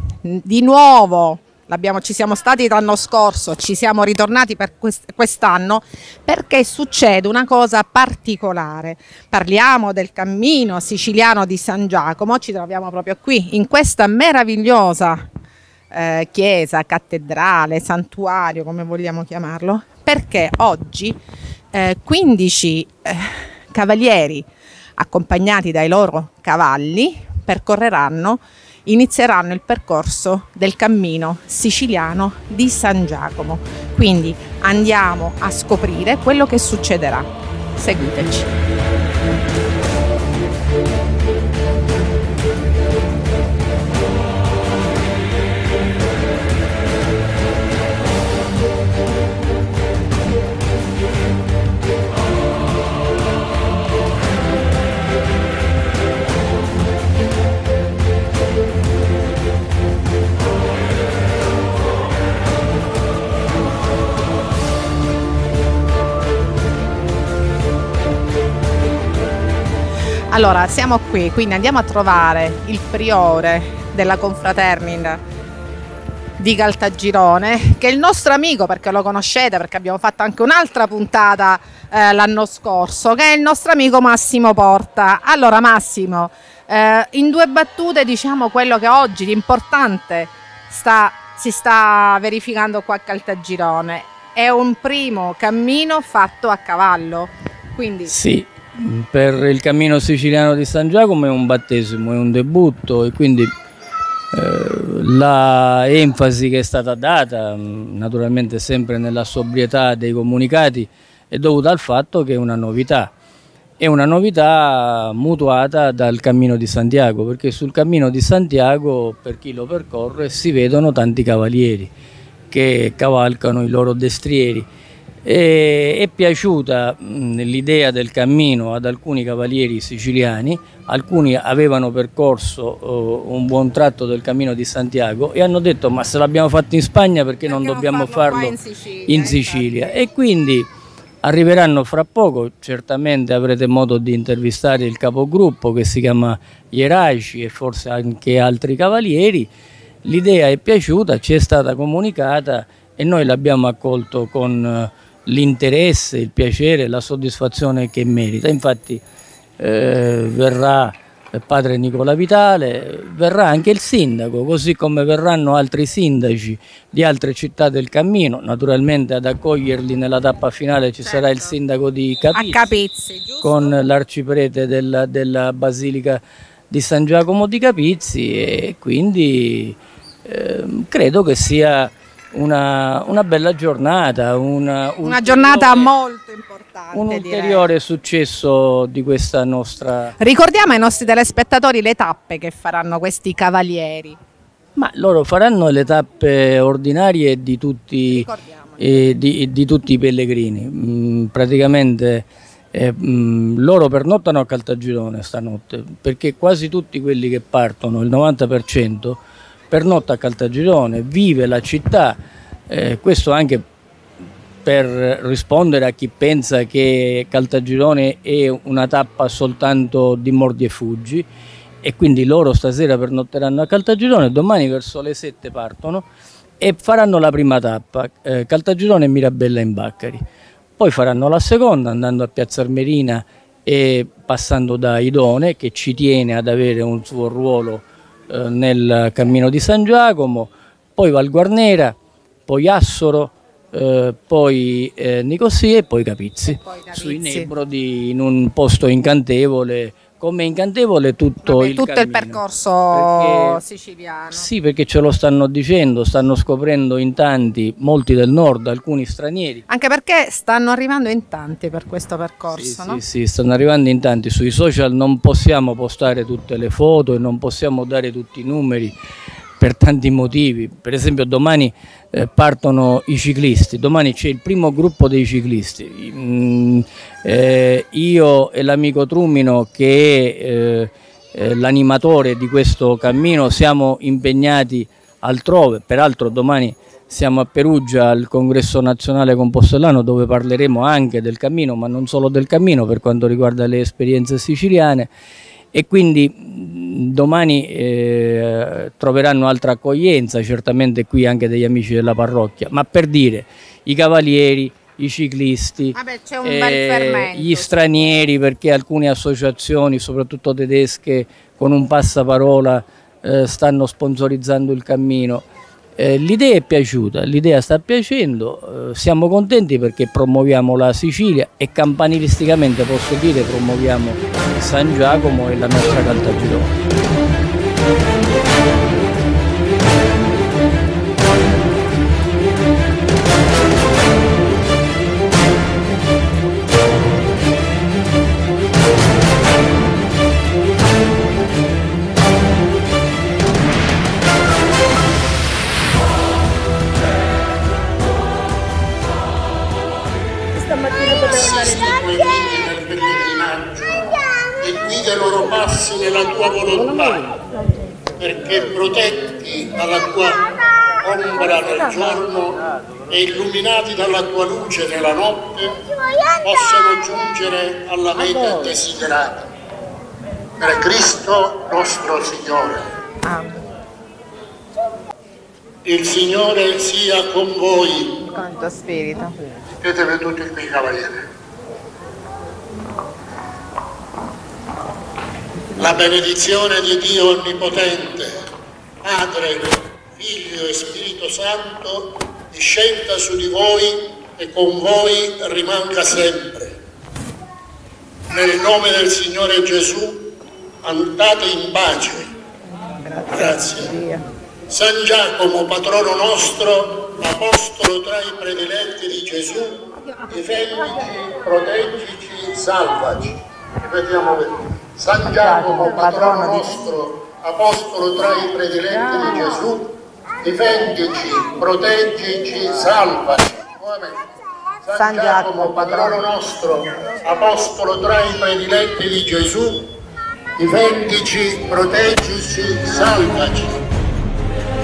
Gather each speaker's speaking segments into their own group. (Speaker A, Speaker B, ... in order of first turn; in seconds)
Speaker A: 0.2-15.3, 15.9-21.2, 21.7-24.5, 25.0-38.5, 70.3-75.2, 76.4-98.1, 137.5-139.8, 171.0-171.5, 172.3-173.7, 185.1-187.7, 190.2-194.2, 198.1-198.8, 246.6-247.5, 251.5-254.4, 259.7-263.0, 305.9-307.9, 373.2-373.6, 378.3-379.4, 403.0-404.2, 415.3-416.7, 424.9-426.2
Speaker B: 98.1-103.5, 104.3-113.1, 113.8-121.9, 122.5-124.7, 125.2-138.6, 139.1-140.7, 141.2-149.5, 150.1-159.0, 159.6-172.7, 173.4-185.9, 186.9-190.1, 194.8-209.2, 209.7-212.2, 212.7-213.6, 214.7-221.3, 221.8-226.1, 226.6-230.2, 230.8-242.0, 242.5-252.4, 252.9-253.6, 254.3-259.6, 262.5-268.9, 269.6-295.1, 295.7-315.4, 316.0-326.7
Speaker C: 351.0-357.3, 358.2-360.4, 361.0-365.8, 366.4-369.5, 370.6-372.9, 375.9-378.2, 379.8-381.2, 385.8-388.4, 389.0-396.8, 398.3-402.3, 403.3-404.0, 404.7-424.2, 424.8-429.9, 430.6-433.8